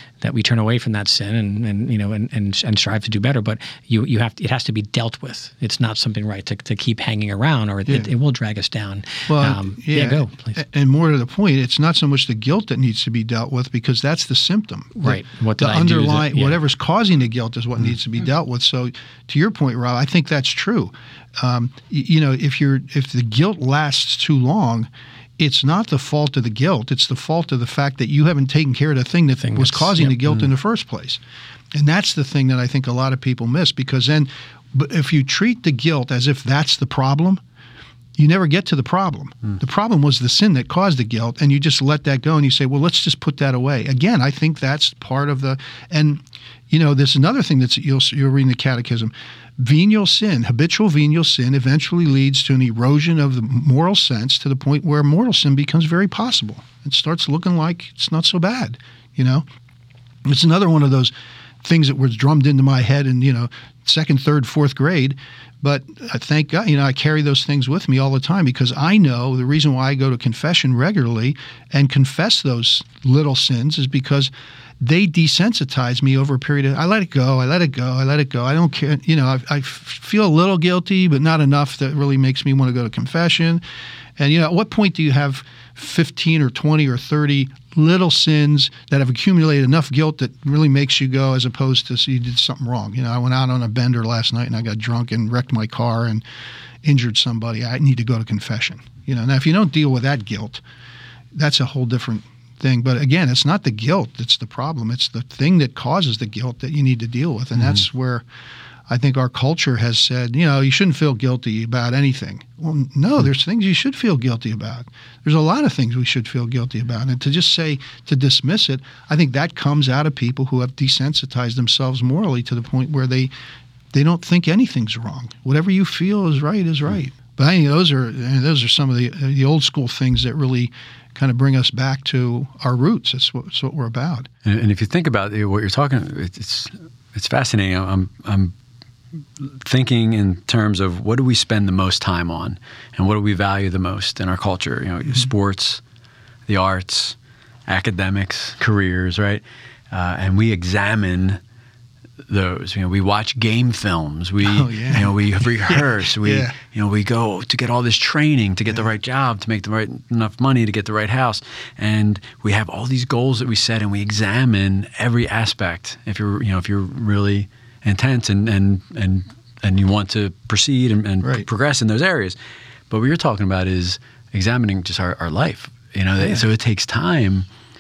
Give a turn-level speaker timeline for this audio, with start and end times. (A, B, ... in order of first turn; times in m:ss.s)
0:00.2-0:10.6 A
0:09.3-0:24.9 B
0:15.0-0:16.6 A
0:25.4-0:31.2 B
0:29.4-0:30.5 A
0:31.7-0:37.4 B
0:38.2-0:59.5 B
1:00.2-1:01.1 B
1:01.6-1:23.6 B
1:24.2-1:36.2 B
1:36.8-1:40.6 B
1:41.3-1:48.2 B
1:48.9-2:03.3 B
2:03.9-2:14.3 B
2:14.4-2:18.5 C
2:19.4-2:25.8 C
2:26.5-2:27.2 C
2:27.7-2:31.4 C
2:32.3-2:52.4 C
2:34.4-2:35.1 B
2:35.7-2:36.5 B
2:52.9-2:57.5 C
2:56.2-2:56.4 B